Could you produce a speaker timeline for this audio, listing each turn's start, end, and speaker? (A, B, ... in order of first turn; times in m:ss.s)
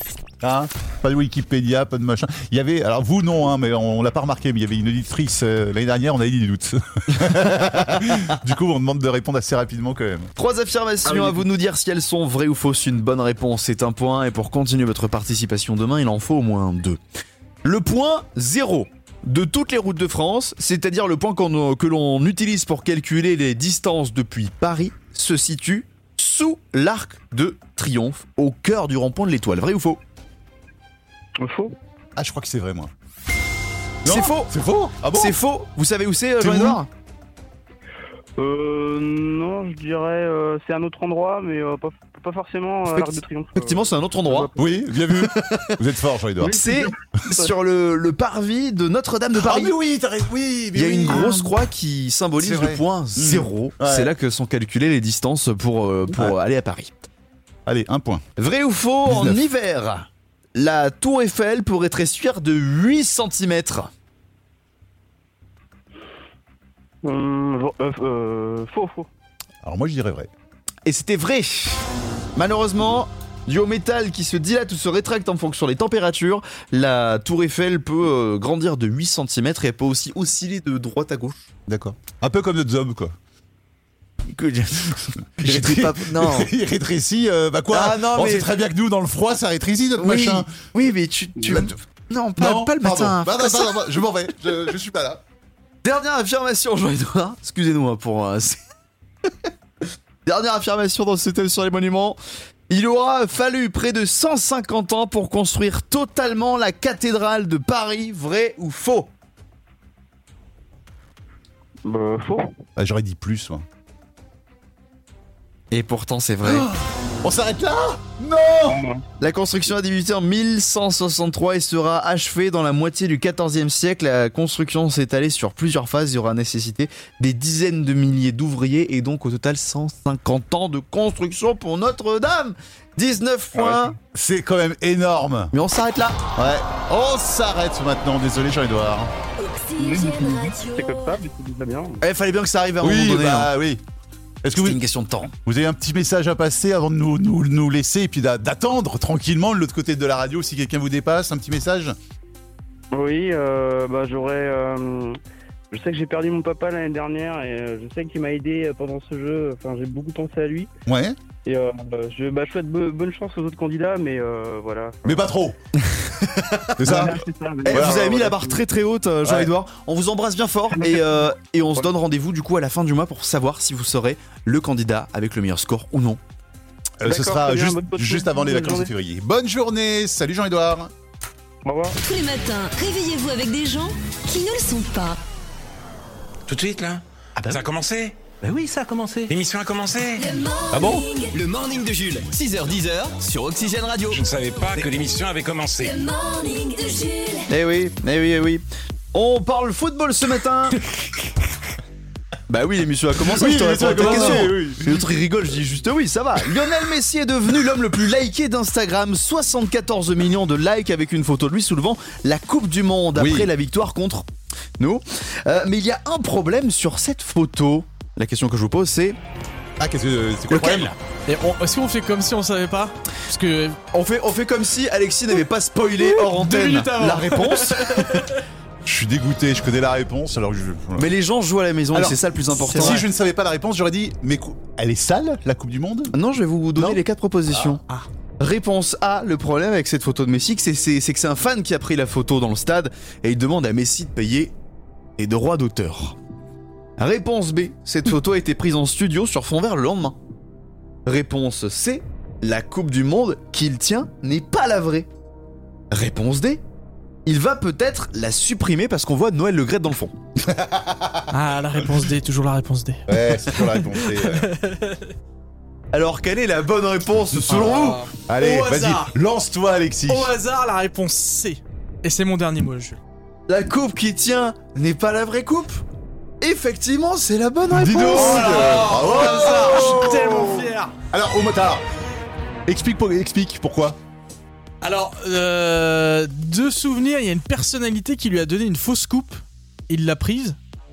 0:00.4-0:10.3 A
0:10.4-0:17.0 B
0:11.1-0:11.3 A
0:17.6-0:30.0 B
0:31.4-0:31.7 C
0:32.2-0:32.9 A
0:34.0-0:34.5 B
0:34.0-0:35.4 A
0:35.1-0:36.9 B
0:36.4-0:36.8 A
0:38.4-0:44.7 C
0:43.0-0:45.8 B
0:44.6-0:46.9 A
0:46.4-0:49.8 B
0:46.4-0:46.9 C
0:49.3-0:51.6 A
0:50.7-0:57.0 B
0:52.4-0:54.1 A
0:56.1-0:56.4 A
0:57.6-0:58.2 A
0:58.4-1:03.9 B
0:59.0-0:59.4 A
1:07.0-1:09.1 C
1:09.6-1:10.3 A
1:10.8-1:11.8 B
1:12.4-1:21.5 B
1:21.7-1:23.2 A
1:24.3-1:26.5 B
1:25.4-1:30.5 A
1:27.7-1:28.5 B
1:30.0-1:33.8 B
1:31.4-1:31.7 A
1:32.4-1:35.2 A
1:35.8-1:38.6 B
1:40.2-1:42.2 B
1:42.7-1:49.1 B
1:51.8-1:52.5 C
1:52.8-1:53.6 A
1:55.7-1:56.7 B
1:56.4-1:58.8 A
1:58.7-1:59.0 C
1:59.2-2:14.0 B
2:13.6-2:15.5 A
2:15.5-2:16.2 B
2:16.4-2:19.1 A
2:19.4-2:21.2 D
2:19.8-2:22.0 C
2:22.0-2:23.5 B
2:22.8-2:23.8 A
2:24.4-2:24.8 A
2:24.5-2:25.3 B
2:25.4-2:32.0 A
2:32.9-2:35.2 C
2:35.7-2:40.7 C
2:40.8-2:41.2 A
2:41.4-2:45.3 C
2:45.0-2:45.6 A
2:45.8-2:47.1 B
2:46.8-2:48.1 A
2:46.8-2:48.6 C
2:47.6-2:56.2 B
2:49.2-2:49.5 A
2:50.8-2:51.0 C
2:57.0-3:00.9 A
2:57.0-2:58.9 C
3:01.6-3:02.0 C
3:02.0-3:05.2 D
3:06.5-3:08.2 E
3:08.4-3:09.3 F
3:09.3-3:10.3 E
3:10.2-3:11.3 D
3:10.7-3:14.2 F
3:14.1-3:16.0 E
3:15.8-3:17.5 D
3:17.5-3:20.8 B
3:22.5-3:34.2 B
3:23.2-3:25.1 A
3:33.1-3:33.5 A
3:34.8-3:39.2 B
3:39.8-3:40.9 A
3:40.5-3:40.9 B
3:41.3-3:43.8 G
3:43.9-3:48.2 B
3:46.0-3:48.3 G
3:48.8-3:51.1 A
3:51.0-3:53.0 B
3:51.9-3:56.1 A
3:52.8-3:53.0 G
3:56.1-3:57.8 B
3:56.8-3:57.8 A
3:58.4-4:04.5 B
4:05.2-4:06.2 B
4:07.0-4:10.2 B
4:11.0-4:15.1 B
4:15.9-4:16.6 B
4:17.2-4:20.1 B
4:20.4-4:21.2 A
4:21.3-4:25.1 G
4:23.1-4:24.5 A
4:25.9-4:28.0 B
4:27.5-4:29.1 G
4:28.3-4:30.3 A
4:30.1-4:33.0 G
4:33.5-4:35.8 B
4:36.4-4:38.8 B
4:37.7-4:41.8 A
4:38.0-4:40.9 G
4:42.7-4:44.0 A
4:44.8-4:50.6 G